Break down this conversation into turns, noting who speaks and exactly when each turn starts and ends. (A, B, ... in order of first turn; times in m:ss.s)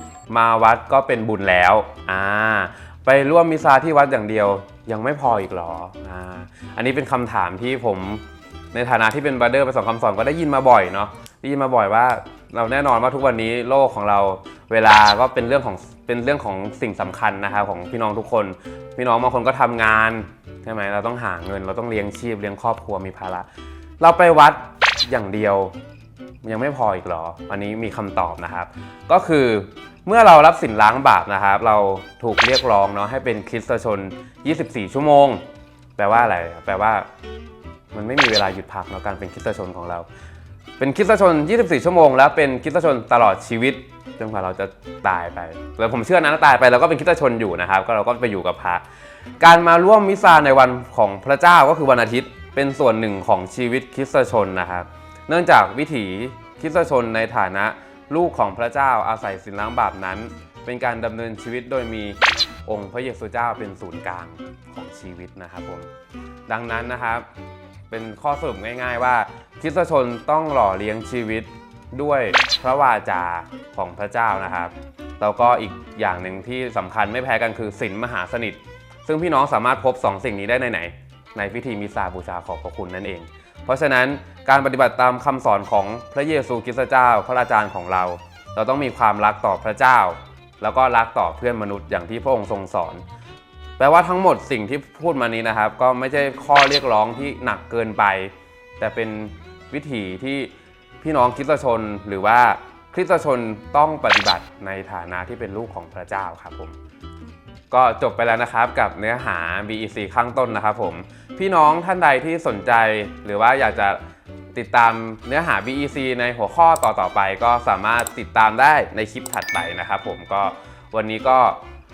0:00.3-0:23.5 A
0:24.0-0:25.8 A
0:26.4-0:35.4 A
0:36.0-0:37.1 A
0:37.9-0:40.1 A
0:40.8-0:48.8 A
0:49.4-1:05.9 A
1:06.5-1:07.3 A
1:07.9-1:33.0 A
1:33.8-1:46.8 A
1:47.7-1:54.0 A
1:54.5-2:01.6 A